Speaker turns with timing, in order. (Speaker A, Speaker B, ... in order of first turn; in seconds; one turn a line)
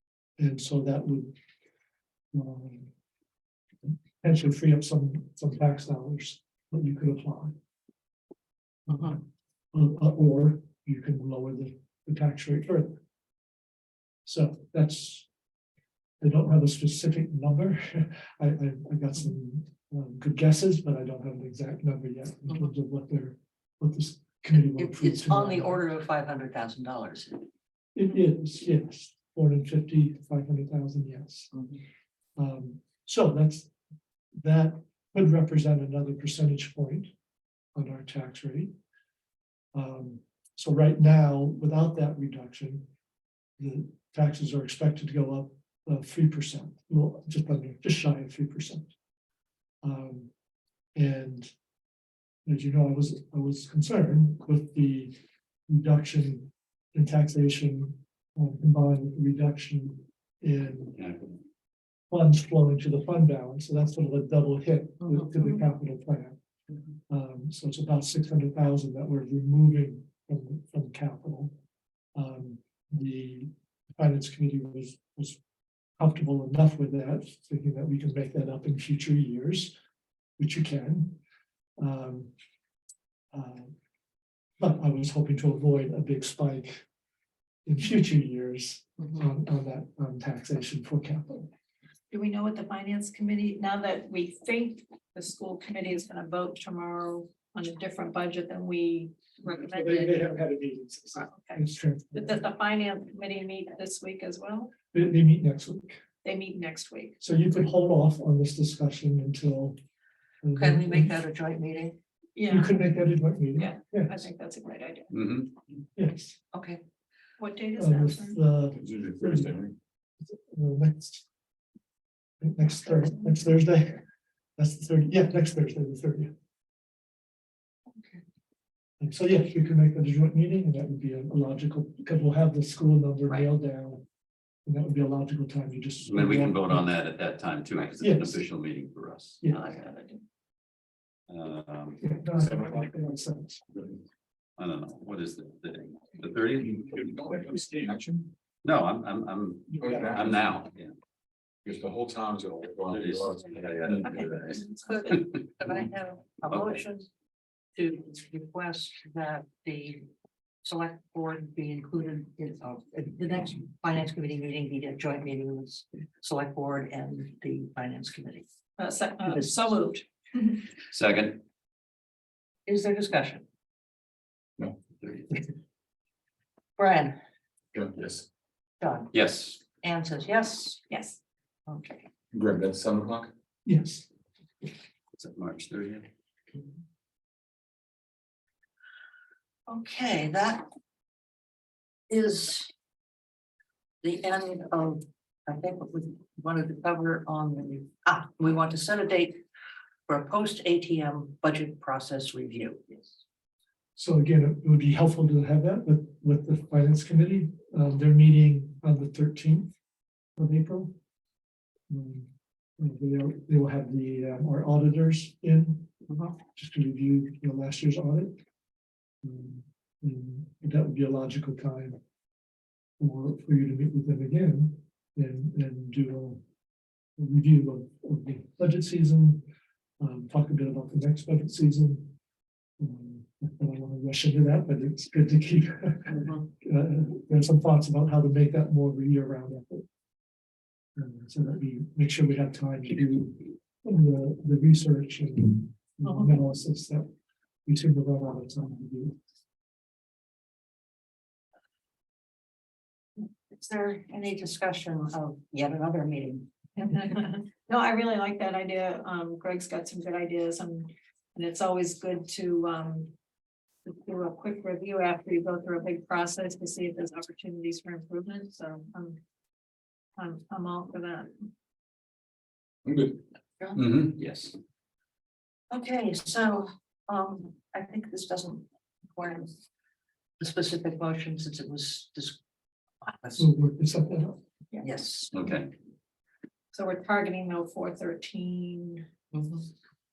Speaker A: 0.4-1.4
Speaker A: 2.3-2.9
Speaker A: 4.2-7.6
Speaker B: 8.9-9.2
Speaker A: 8.9-9.2
Speaker A: 9.7-13.0
Speaker A: 14.2-15.3
Speaker A: 16.2-25.8
Speaker B: 24.8-27.5
Speaker A: 27.9-31.5
Speaker B: 31.5-31.8
Speaker A: 32.4-33.7
Speaker A: 34.4-37.1
Speaker A: 37.8-38.7
Speaker A: 39.7-42.9
Speaker A: 43.6-48.9
Speaker A: 49.8-50.3
Speaker A: 51.0-51.5
Speaker A: 52.5-55.1
Speaker A: 55.7-61.0
Speaker C: 61.0-61.4
Speaker A: 62.1-66.4
Speaker B: 65.0-65.3
Speaker A: 67.1-71.5
Speaker A: 72.2-75.4
Speaker A: 76.0-79.8
Speaker A: 80.4-81.2
Speaker A: 81.8-82.3
Speaker A: 83.3-83.7
Speaker A: 84.6-86.8
Speaker A: 87.7-91.5
Speaker D: 92.1-100.3
Speaker A: 99.6-102.4
Speaker D: 101.2-101.6
Speaker D: 102.1-104.7
Speaker A: 104.9-106.0
Speaker D: 106.2-107.2
Speaker A: 107.2-109.8
Speaker A: 110.4-111.2
Speaker B: 110.5-112.0
Speaker D: 112.4-112.8
Speaker A: 112.5-114.2
Speaker D: 113.5-115.1
Speaker C: 115.1-115.5
Speaker A: 116.0-116.4
Speaker B: 116.5-116.8
Speaker D: 117.4-118.4
Speaker A: 117.8-119.6
Speaker E: 118.8-119.8
Speaker A: 120.2-121.3
Speaker A: 122.4-124.1
Speaker A: 124.6-126.3
Speaker A: 129.0-134.0
Speaker A: 134.7-136.9
Speaker C: 136.0-139.4
Speaker A: 138.0-138.4
Speaker D: 139.5-140.2
Speaker C: 141.3-142.1
Speaker A: 142.0-143.6
Speaker E: 142.4-142.8
Speaker C: 144.6-147.1
Speaker E: 146.9-148.3
Speaker C: 148.6-150.9
Speaker E: 149.8-150.4
Speaker E: 151.6-154.2
Speaker C: 152.9-154.6
Speaker D: 154.1-155.3
Speaker B: 154.8-157.1
Speaker B: 157.8-160.1
Speaker B: 160.6-168.5
Speaker D: 168.8-170.6
Speaker B: 169.2-169.8
Speaker C: 170.9-171.4
Speaker B: 172.7-173.4
Speaker C: 175.0-175.4
Speaker B: 176.8-177.2
Speaker E: 177.7-178.3
Speaker B: 178.8-180.9
Speaker C: 179.1-179.6
Speaker D: 180.9-181.2
Speaker B: 181.7-182.1
Speaker E: 182.3-183.3
Speaker A: 183.7-184.1
Speaker C: 185.2-186.1
Speaker B: 189.7-190.7
Speaker B: 192.1-192.7
Speaker B: 194.0-199.4
Speaker B: 200.1-203.1
Speaker A: 204.0-209.7
Speaker A: 210.4-210.9
Speaker A: 211.9-215.9
Speaker B: 216.1-216.4
Speaker A: 216.5-218.4
Speaker A: 219.2-222.0
Speaker A: 223.0-226.4
Speaker A: 227.2-229.5
Speaker A: 230.0-232.2
Speaker A: 232.8-239.9
Speaker A: 241.0-247.1
Speaker A: 247.7-249.2
Speaker B: 253.5-256.5
Speaker D: 256.8-263.1
Speaker D: 263.9-269.2
Speaker D: 270.2-271.5
Speaker E: 272.9-273.2
Speaker C: 273.8-274.2
Speaker B: 275.7-279.6
Speaker B: 280.4-282.4
Speaker B: 283.0-283.5
Speaker A: 283.4-284.4
Speaker B: 284.8-285.4
Speaker C: 285.3-285.7
Speaker D: 286.7-289.1
Speaker B: 289.3-289.7